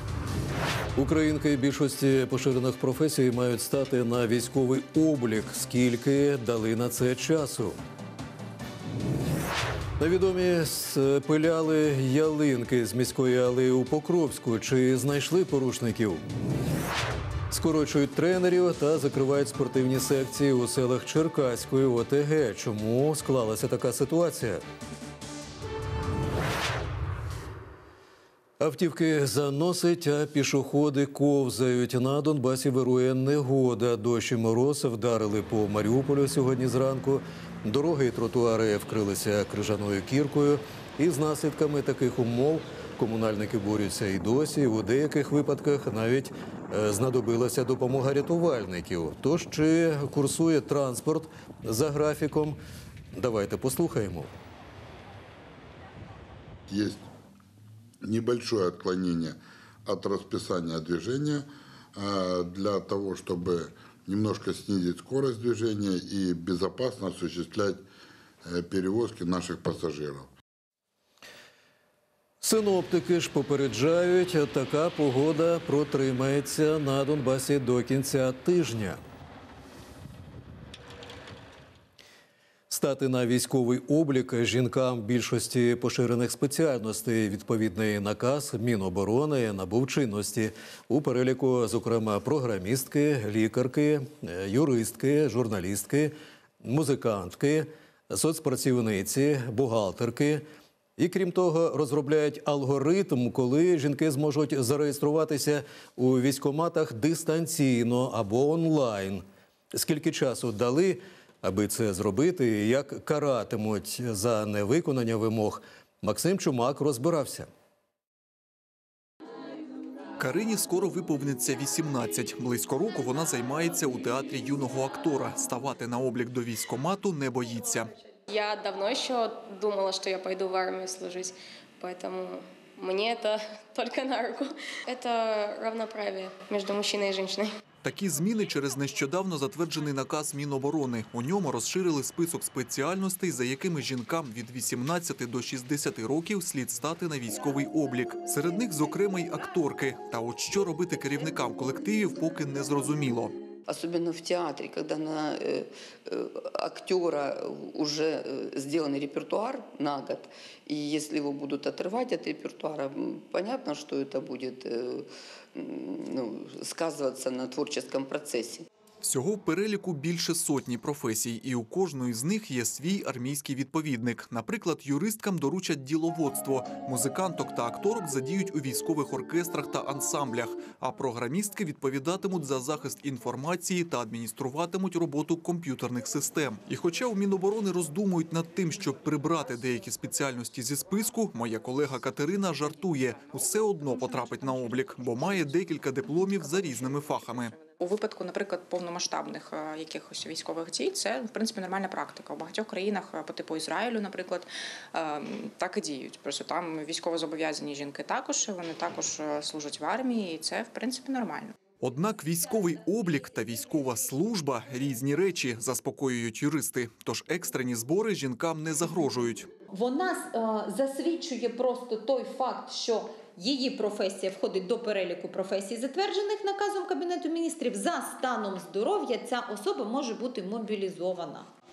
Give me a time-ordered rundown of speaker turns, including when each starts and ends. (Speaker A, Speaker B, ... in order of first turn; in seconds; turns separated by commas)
Speaker A: 0.9-7.8, Speaker A: 10.0-16.2, Speaker A: 17.5-24.6, Speaker A: 28.6-52.6, Speaker A: 53.1-54.3, Speaker B: 56.7-57.0, Speaker B: 58.0-67.8, Speaker B: 68.4-70.3, Speaker A: 72.4-79.0, Speaker A: 82.7-100.4, Speaker A: 101.0-117.5, Speaker C: 120.2-127.9, Speaker D: 128.4-131.2, Speaker D: 135.7-137.1, Speaker C: 137.8-153.3, Speaker E: 153.7-168.7, Speaker C: 169.0-197.6, Speaker F: 197.7-211.5, Speaker C: 211.8-219.5, Speaker G: 219.7-231.4